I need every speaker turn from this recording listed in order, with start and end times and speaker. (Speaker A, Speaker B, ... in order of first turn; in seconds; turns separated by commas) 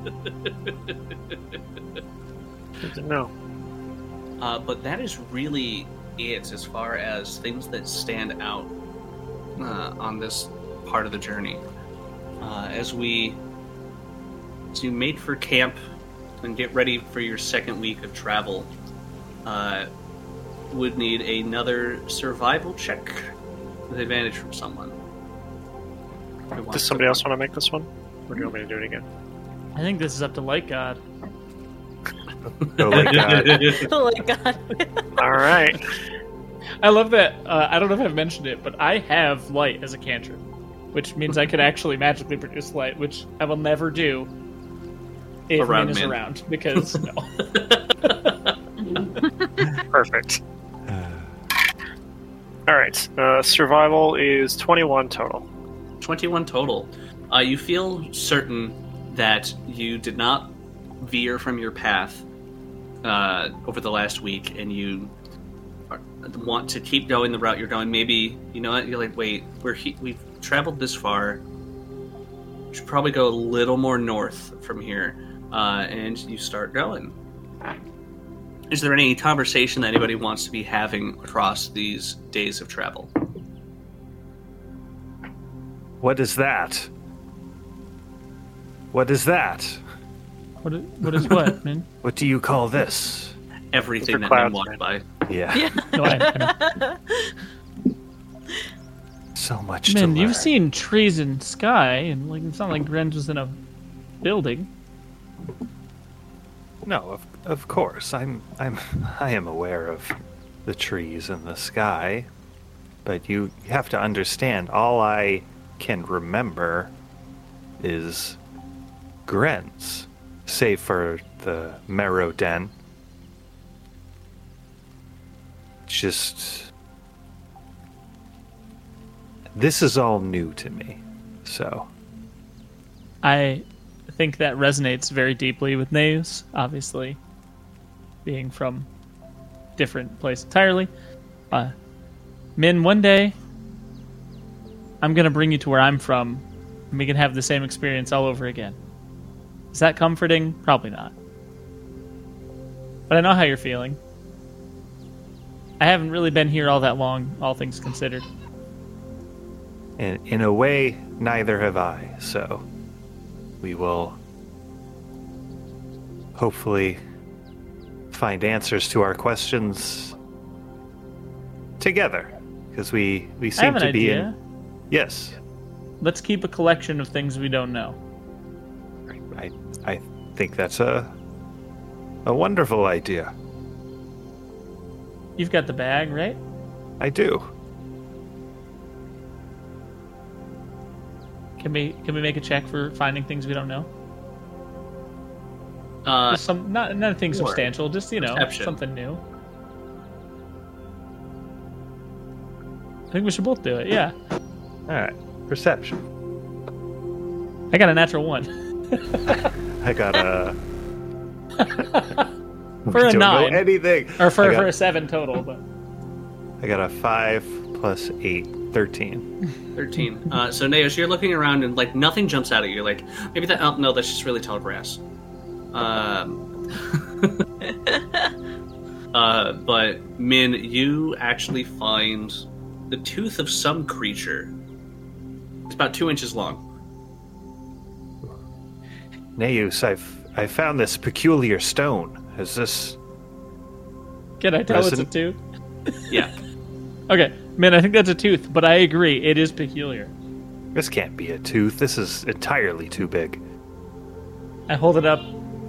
Speaker A: 0.2-1.4, Speaker B: 2.8-3.3, Speaker A: 4.4-8.7, Speaker A: 9.6-11.6, Speaker A: 12.4-13.4, Speaker A: 14.7-15.8, Speaker A: 16.4-18.7, Speaker A: 19.4-19.9, Speaker A: 20.7-23.3, Speaker A: 23.9-25.0, Speaker A: 26.5-27.2, Speaker B: 26.7-29.1, Speaker C: 29.8-31.0, Speaker A: 32.6-33.9, Speaker D: 32.6-33.7, Speaker E: 33.7-35.1, Speaker B: 35.2-35.9, Speaker C: 36.8-40.4, Speaker C: 40.9-44.3, Speaker C: 45.5-47.5, Speaker A: 45.6-46.2, Speaker A: 46.8-48.5, Speaker B: 49.9-50.4, Speaker D: 50.9-51.3, Speaker B: 52.7-55.5, Speaker A: 56.0-62.3, Speaker A: 63.0-65.1, Speaker A: 65.9-71.4, Speaker A: 72.7-77.1, Speaker A: 78.7-83.1, Speaker D: 86.0-86.9, Speaker D: 88.9-89.8, Speaker C: 90.6-91.9, Speaker D: 92.0-93.3, Speaker A: 93.7-95.0, Speaker B: 94.0-94.8, Speaker D: 95.3-95.8, Speaker E: 95.5-97.3, Speaker C: 95.9-96.6, Speaker D: 99.3-100.5, Speaker C: 99.9-103.6, Speaker C: 104.2-104.7, Speaker D: 106.8-112.3, Speaker D: 113.0-116.9, Speaker D: 117.8-118.4, Speaker D: 119.3-122.7, Speaker D: 125.9-126.7, Speaker D: 129.5-131.9, Speaker C: 133.2-137.2, Speaker C: 138.2-138.9, Speaker C: 139.8-140.9, Speaker C: 142.6-143.3, Speaker C: 145.0-148.8, Speaker C: 149.7-151.1, Speaker C: 153.1-154.0, Speaker C: 155.8-158.3, Speaker D: 160.0-162.7, Speaker D: 163.6-164.2, Speaker D: 166.3-167.0, Speaker D: 168.1-170.2, Speaker D: 171.8-174.3, Speaker C: 173.6-174.3, Speaker D: 174.9-175.4, Speaker C: 176.0-178.0, Speaker D: 179.1-181.2, Speaker D: 182.2-183.3, Speaker C: 185.4-186.4, Speaker D: 187.0-187.5, Speaker C: 191.6-193.9, Speaker A: 196.1-196.4, Speaker C: 196.3-199.2, Speaker A: 197.3-198.8, Speaker C: 203.1-204.1, Speaker D: 204.9-206.0, Speaker C: 207.7-209.5, Speaker D: 209.3-210.6, Speaker C: 211.6-212.2, Speaker D: 212.9-214.7, Speaker C: 212.9-213.7, Speaker C: 214.2-215.6, Speaker D: 216.6-219.3, Speaker A: 219.8-225.0, Speaker A: 225.7-227.4, Speaker A: 229.1-234.5, Speaker A: 235.7-236.6, Speaker D: 239.4-243.0, Speaker C: 244.4-245.4, Speaker D: 244.7-245.1, Speaker C: 247.1-250.1, Speaker D: 250.8-253.4, Speaker C: 254.7-255.3